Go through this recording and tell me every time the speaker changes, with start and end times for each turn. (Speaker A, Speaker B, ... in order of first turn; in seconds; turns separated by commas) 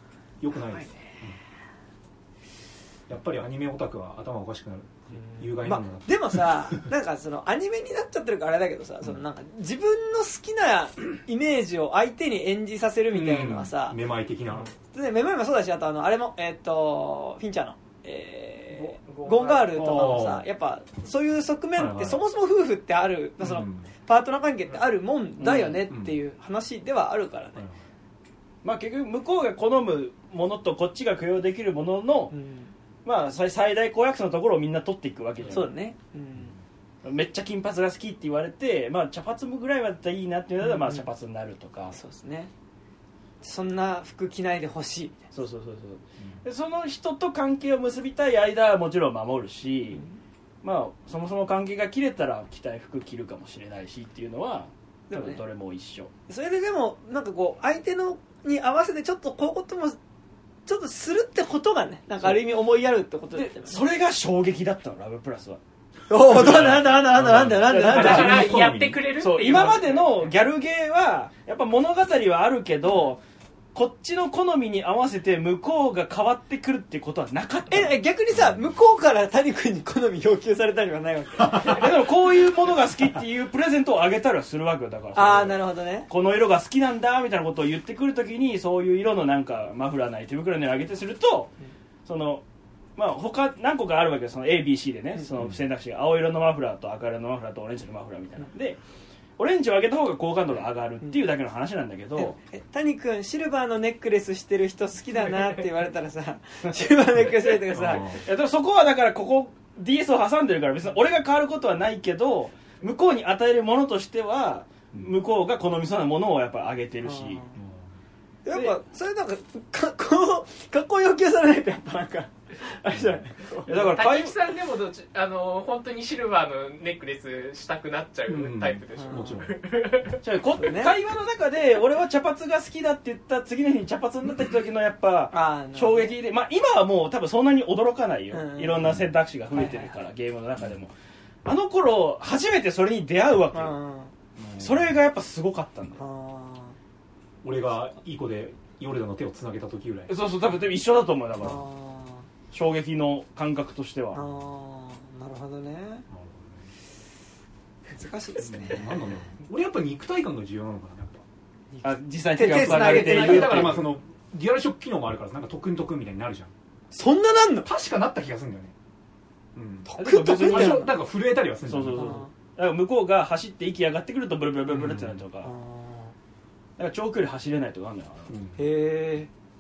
Speaker A: 0.4-1.4, Speaker B: 0.7-1.0, Speaker A: 3.1-6.9, Speaker B: 5.4-14.0, Speaker A: 13.1-14.7, Speaker B: 14.9-27.6, Speaker C: 18.7-19.8, Speaker A: 19.7-20.5, Speaker A: 21.7-22.2, Speaker A: 23.4-23.9, Speaker D: 25.4-25.8, Speaker A: 25.9-26.2, Speaker D: 28.6-32.3, Speaker B: 32.3-32.7, Speaker D: 33.0-35.7, Speaker B: 35.5-36.5, Speaker D: 37.0-42.0, Speaker B: 40.6-41.0, Speaker B: 41.9-42.5, Speaker B: 43.4-45.2, Speaker D: 45.3-50.0, Speaker B: 49.9-50.2, Speaker D: 50.6-56.1, Speaker B: 55.1-55.4, Speaker B: 56.3-60.0, Speaker B: 60.7-63.8, Speaker D: 63.3-65.6, Speaker B: 66.1-68.5, Speaker A: 66.2-69.0, Speaker D: 66.3-66.9, Speaker D: 67.6-68.5, Speaker C: 67.8-70.3, Speaker D: 69.2-73.2, Speaker D: 73.7-78.0, Speaker B: 77.7-81.9, Speaker A: 78.3-78.6, Speaker D: 81.5-91.5, Speaker B: 85.2-86.1, Speaker D: 92.0-92.4, Speaker D: 93.0-98.8, Speaker D: 99.4-102.4, Speaker B: 102.2-108.2, Speaker A: 107.7-108.2, Speaker D: 107.9-117.5, Speaker B: 117.0-117.6, Speaker A: 117.5-117.8, Speaker B: 118.5-123.9, Speaker D: 123.7-124.4, Speaker C: 123.8-130.2, Speaker A: 128.3-129.6, Speaker B: 129.0-129.4, Speaker D: 130.2-140.9, Speaker B: 130.6-131.0, Speaker B: 135.3-136.1, Speaker B: 138.3-138.9, Speaker A: 138.8-139.1, Speaker B: 139.5-140.0, Speaker D: 141.4-143.8, Speaker B: 143.5-144.1, Speaker A: 144.4-144.9, Speaker D: 144.6-146.0, Speaker B: 146.0-146.8, Speaker A: 147.4-150.1, Speaker D: 150.1-151.6, Speaker B: 151.4-152.3, Speaker D: 152.5-154.2, Speaker B: 154.1-156.1, Speaker A: 156.1-156.7, Speaker B: 157.9-159.2, Speaker A: 158.4-161.2, Speaker B: 161.7-163.8, Speaker D: 161.8-163.9, Speaker A: 162.5-166.5, Speaker B: 166.9-167.7, Speaker A: 167.6-168.7, Speaker A: 169.6-172.2, Speaker B: 169.9-171.0, Speaker D: 170.0-170.9, Speaker D: 171.7-175.5, Speaker B: 171.9-172.3, Speaker A: 174.7-175.2, Speaker B: 175.4-176.1, Speaker D: 176.8-178.3, Speaker A: 178.3-178.6, Speaker B: 178.6-179.3